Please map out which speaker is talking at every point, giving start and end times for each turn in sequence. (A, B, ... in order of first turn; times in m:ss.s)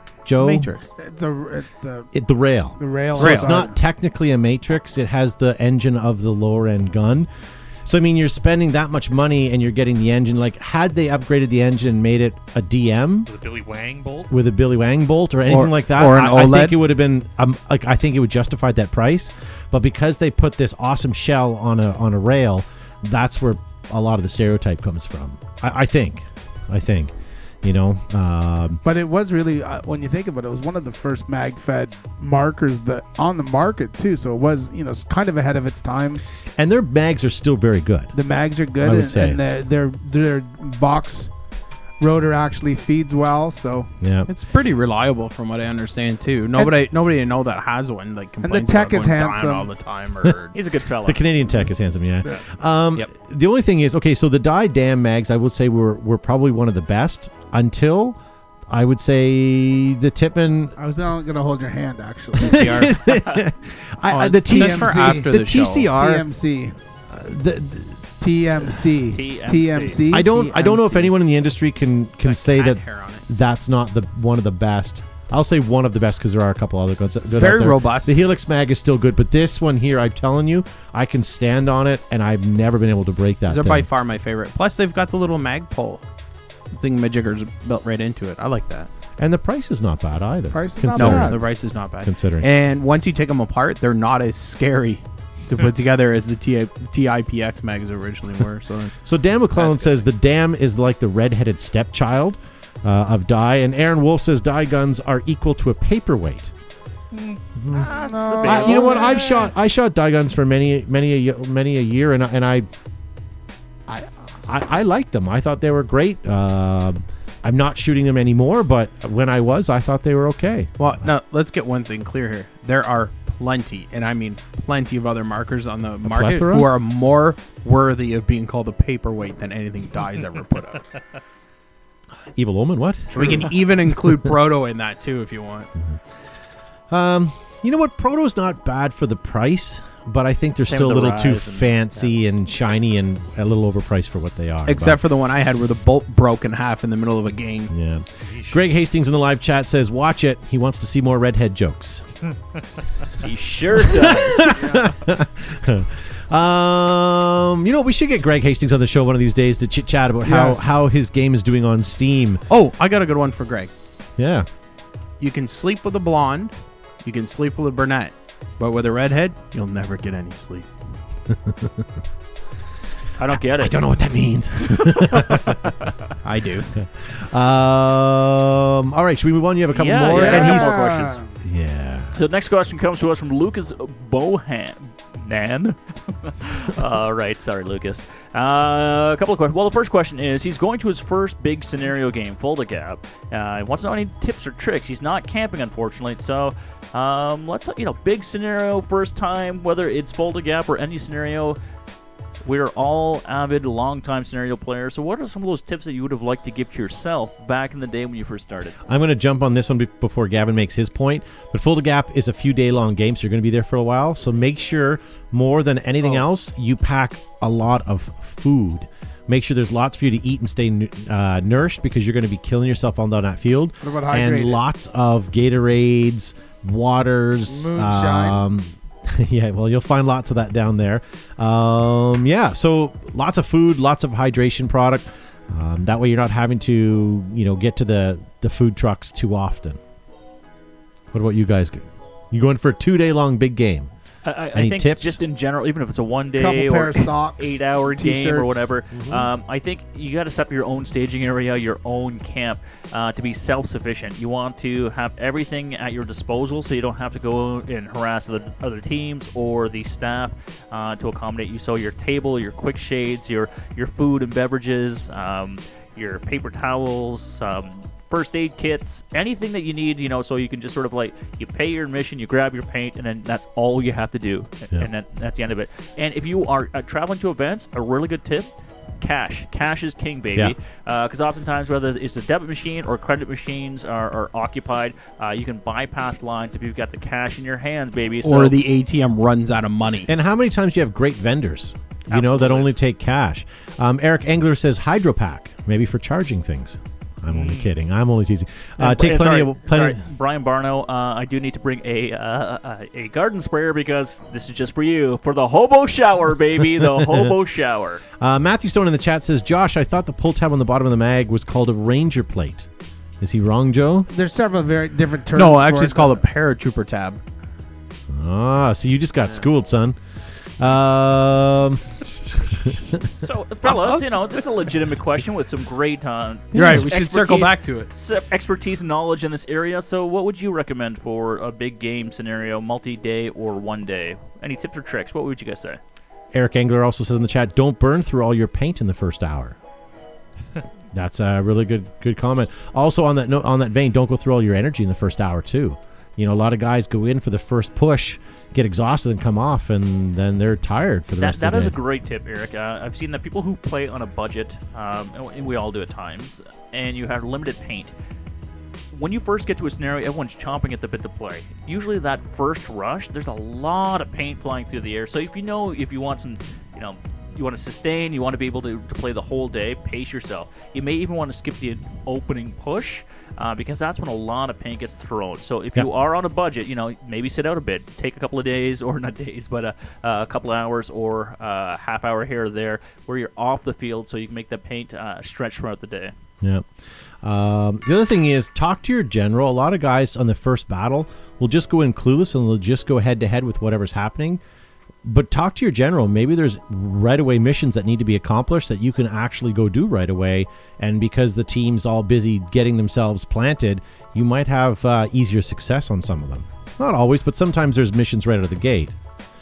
0:00.2-0:00.7 A
0:00.4-0:00.9 B
0:01.0-0:02.1 C
0:02.1-0:07.3 A
0:02.8-0:03.7 C
0:03.2-0:03.6 B
0:07.8-0:13.3 A
0:13.3-0:14.3 D
0:14.3-0:27.1 A
0:15.5-0:16.7 C
0:27.6-0:28.8 A
0:28.8-0:36.2 C
0:36.6-0:38.1 A
0:38.1-0:41.3 C
0:38.8-0:39.4 A
0:42.0-0:43.9 C
0:44.0-0:44.3 A
0:44.3-0:50.6 B
0:48.4-0:49.7 C
0:50.5-0:51.3 E
0:51.0-0:58.2 A
0:58.7-1:00.8 A
1:00.8-1:02.9 C
1:02.4-1:03.1 B
1:02.4-1:06.2 A
1:04.1-1:06.0 B
1:04.4-1:06.7 C
1:07.1-1:08.0 A
1:08.2-1:11.1 C
1:09.1-1:10.0 E
1:10.1-1:23.9 A
1:12.2-1:13.2 B
1:17.3-1:18.2 B
1:23.5-1:26.0 B
1:26.7-1:28.9 B
1:29.2-1:31.4 A
1:30.5-1:31.4 C
1:30.9-1:39.0 B
1:32.0-1:32.5 A
1:39.0-1:46.5 A
1:39.5-1:40.0 B
1:47.6-1:52.7 A
1:47.7-1:49.1 E
1:47.9-1:49.5 C
1:53.9-2:00.8 A
2:00.8-2:10.8 B
2:06.0-2:06.7 A
2:12.3-2:14.2 A
2:13.1-2:15.7 B
2:16.9-2:25.0 A
2:20.7-2:21.7 E
2:24.7-2:27.7 B
2:27.7-2:32.0 A
2:28.2-2:28.6 D
2:33.2-2:34.6 E
2:33.8-2:42.4 A
2:40.2-2:40.6 B
2:42.5-2:43.7 B
2:44.2-2:44.5 A
2:45.2-2:46.5 B
2:47.0-2:50.7 B
2:51.3-2:51.8 A
2:53.2-2:53.8 E
2:53.3-2:55.6 A
2:54.7-2:55.9 E
2:56.2-2:56.7 B
2:56.8-3:02.1 A
2:59.7-3:01.2 E
3:00.1-3:01.2 C
3:02.1-3:21.6 E
3:22.4-3:28.8 E
3:28.8-3:59.8 A
3:43.8-3:44.6 C
3:47.5-3:48.4 C
4:01.1-4:03.9 A
4:04.2-4:38.5 E
4:04.5-4:05.2 A
4:06.3-4:08.7 C
4:08.9-4:09.2 A
4:39.0-4:48.6 E
4:48.2-4:50.1 B
4:50.1-5:00.0 A
4:52.1-4:52.7 E
4:57.3-4:57.7 D
4:58.8-5:08.0 E
5:06.8-5:07.3 A
5:08.2-5:12.7 A
5:13.2-5:14.1 A
5:14.1-5:16.2 C
5:15.3-5:17.2 B
5:18.1-5:20.0 A
5:20.6-5:23.0 A
5:23.2-5:35.8 E
5:23.6-5:24.0 B
5:26.5-5:27.9 B
5:26.5-5:26.8 A
5:36.3-5:39.6 A
5:40.9-5:51.8 A
5:51.2-5:57.9 E
5:58.9-6:26.1 E
6:27.2-6:34.4 A
6:35.0-6:49.0 A